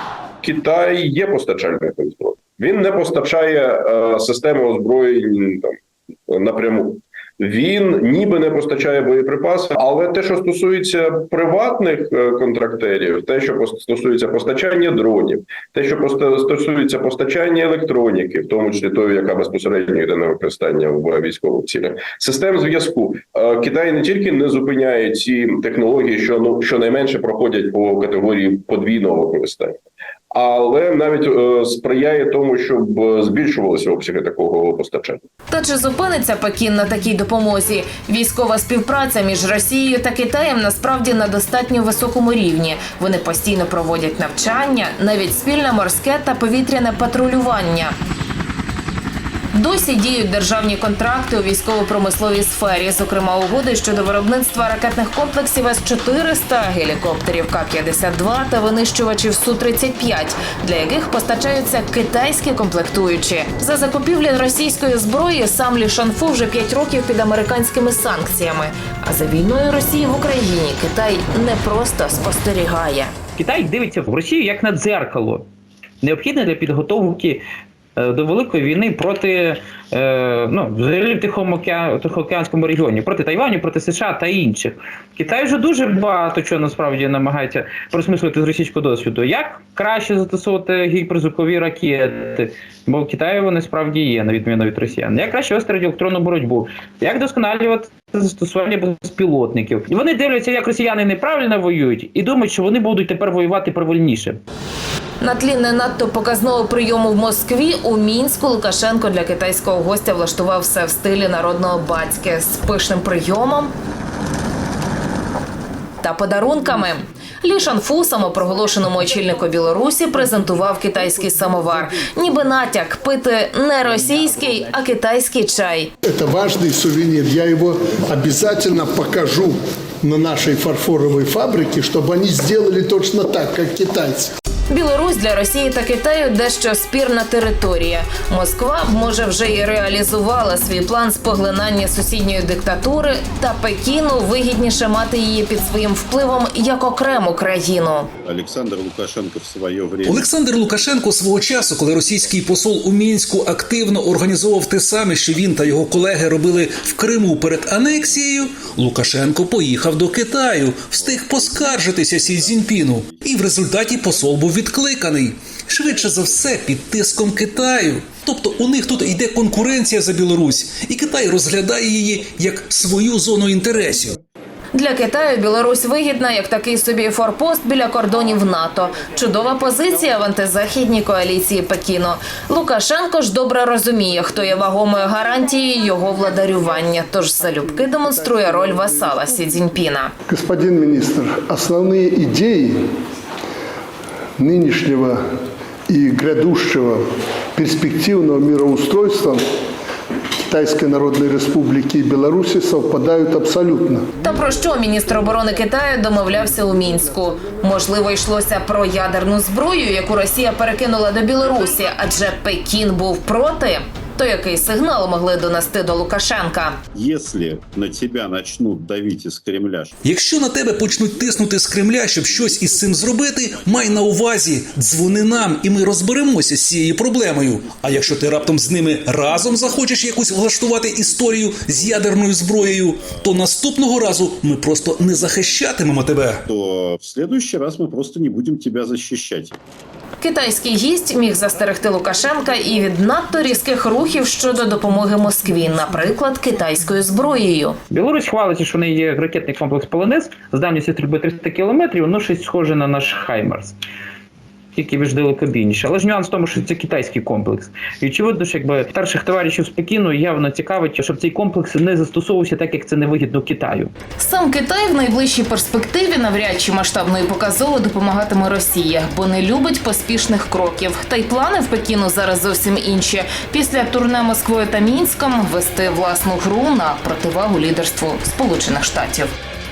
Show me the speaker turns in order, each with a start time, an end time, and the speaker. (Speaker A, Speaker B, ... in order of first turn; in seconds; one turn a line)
Speaker A: 0.4-5.7
Speaker A: 6.3-29.8
Speaker A: 30.3-35.2
Speaker B: 35.5-48.0
Speaker B: 49.5-73.1
Speaker C: 73.4-75.5
Speaker C: 76.0-77.4
Speaker C: 78.0-104.4
Speaker B: 105.2-113.7
Speaker B: 116.0-125.9
Speaker D: 126.0-134.3
Speaker B: 134.7-148.1
Speaker E: 148.2-150.3
Speaker F: 150.1-174.2
Speaker E: 161.3-163.2
Speaker B: 174.7-190.1
Speaker D: 188.0-189.3
Speaker D: 190.3-192.8
Speaker D: 194.4-195.2
Speaker D: 195.9-197.0
Speaker D: 197.6-199.4
Speaker D: 200.5-204.1
Speaker B: 204.2-216.8
Speaker E: 216.9-219.9
Speaker F: 220.0-236.4
Speaker E: 222.3-223.1
Speaker E: 228.0-228.9
Speaker E: 229.4-229.8
Speaker E: 231.1-232.8
Speaker E: 236.5-239.6
Speaker B: 240.2-247.8
Speaker C: 247.9-253.8
Speaker C: 254.8-263.9
Speaker B: 264.2-279.3